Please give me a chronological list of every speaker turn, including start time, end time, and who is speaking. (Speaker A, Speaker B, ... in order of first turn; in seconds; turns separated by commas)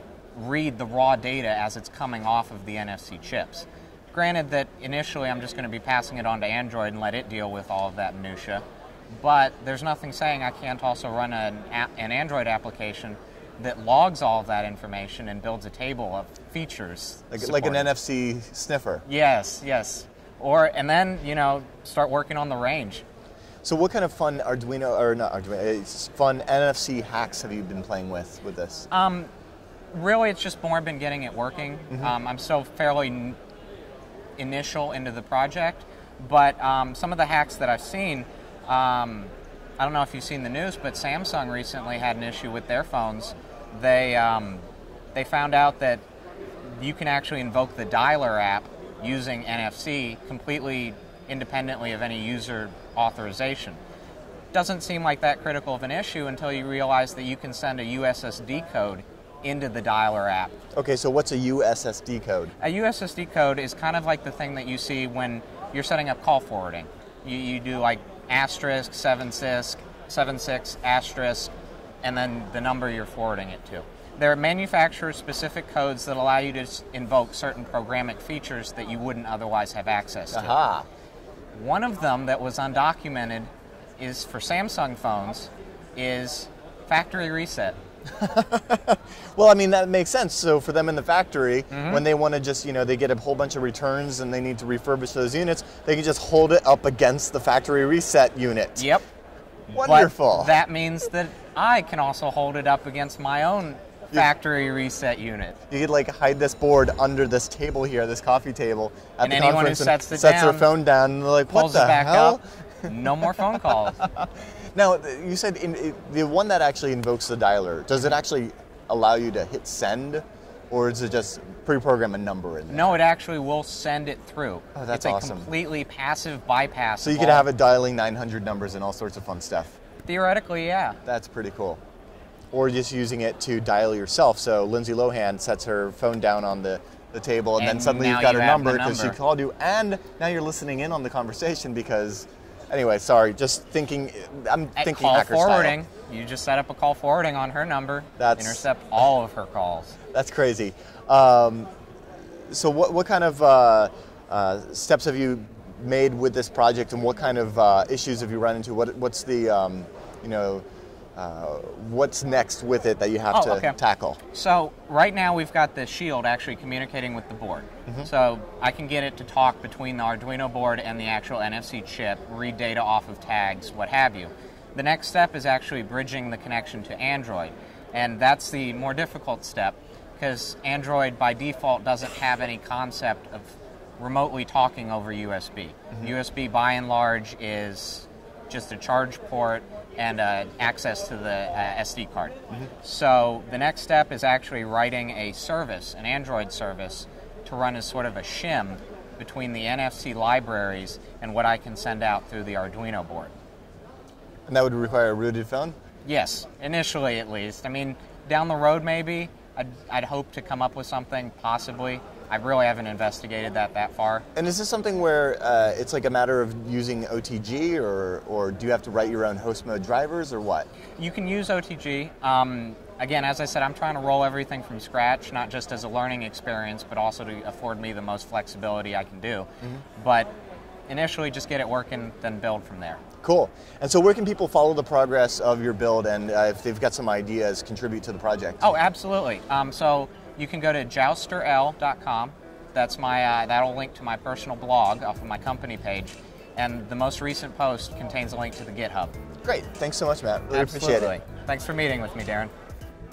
Speaker A: 0.3-17.9, Speaker B: 17.3-19.0, Speaker A: 19.1-23.0, Speaker B: 23.6-28.9, Speaker A: 28.9-29.3, Speaker A: 29.9-33.4, Speaker A: 34.4-46.0, Speaker A: 46.6-53.8, Speaker A: 54.5-60.5, Speaker B: 60.7-62.5, Speaker A: 62.6-71.5, Speaker A: 72.0-80.6, Speaker B: 80.3-80.9, Speaker A: 81.5-87.8, Speaker B: 88.1-98.9, Speaker A: 91.7-92.0, Speaker A: 98.8-99.0, Speaker B: 99.7-100.5, Speaker A: 99.8-105.6, Speaker B: 105.7-123.0, Speaker A: 109.2-110.7, Speaker A: 111.5-114.0, Speaker A: 122.7-127.5, Speaker B: 124.7-125.5, Speaker B: 127.0-129.8, Speaker A: 130.0-131.0, Speaker B: 131.0-131.8, Speaker B: 132.5-145.8, Speaker A: 137.6-139.2, Speaker A: 144.8-150.0, Speaker B: 148.2-148.7, Speaker B: 150.1-151.7, Speaker B: 152.5-160.7, Speaker B: 161.2-164.2, Speaker A: 163.3-163.8, Speaker A: 164.3-203.3, Speaker B: 204.5-205.8, Speaker A: 206.0-214.2, Speaker B: 214.3-220.7, Speaker A: 221.0-230.3, Speaker A: 230.9-233.0, Speaker B: 233.2-238.7, Speaker A: 238.6-249.2, Speaker B: 249.4-251.2, Speaker A: 250.5-252.5